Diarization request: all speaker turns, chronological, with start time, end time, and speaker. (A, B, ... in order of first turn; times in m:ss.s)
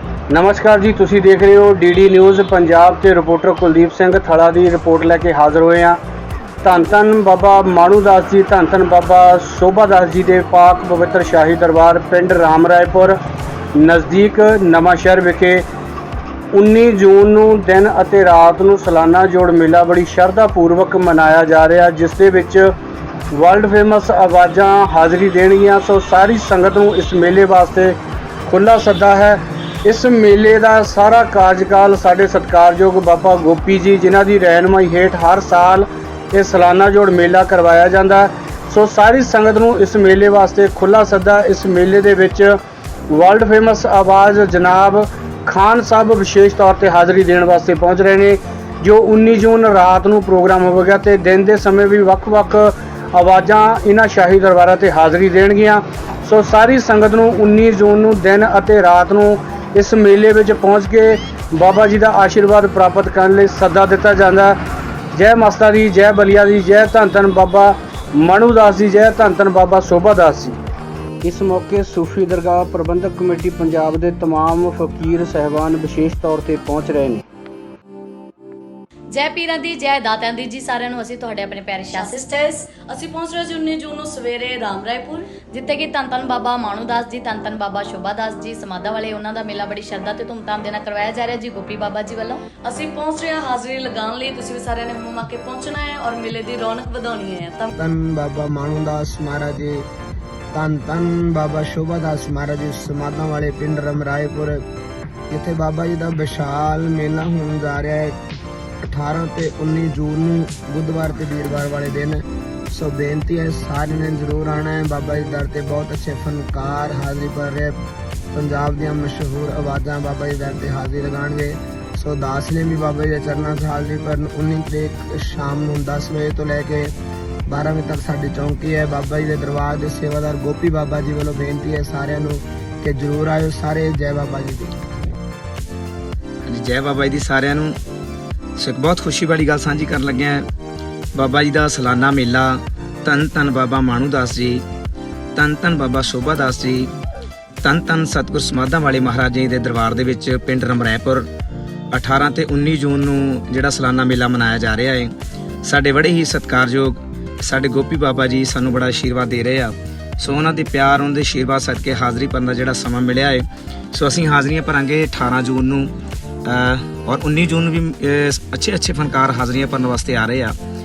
0:00.3-0:06.0 A
0:06.6-0:13.2 A
0:13.8-0:15.6 A
0:16.5-0:22.7 A
0:23.3-0:42.6 A
0:43.1-1:04.6 A
1:05.1-1:10.6 A
1:11.2-1:17.2 A
1:19.1-1:22.3 B
1:21.9-1:25.3 C
1:25.5-1:32.5 B
1:32.6-1:37.7 C
1:37.8-1:39.9 D
1:40.5-1:44.6 D
1:45.3-1:48.2 D
1:48.8-1:57.8 D
1:58.3-2:06.9 D
2:07.5-2:14.7 D
2:16.4-2:17.8 E
2:18.6-2:20.5 E
2:21.2-2:24.6 E
2:25.4-2:26.9 E
2:27.6-2:31.3 E
2:31.9-2:35.1 E
2:35.6-2:45.9 E
2:46.4-2:50.6 E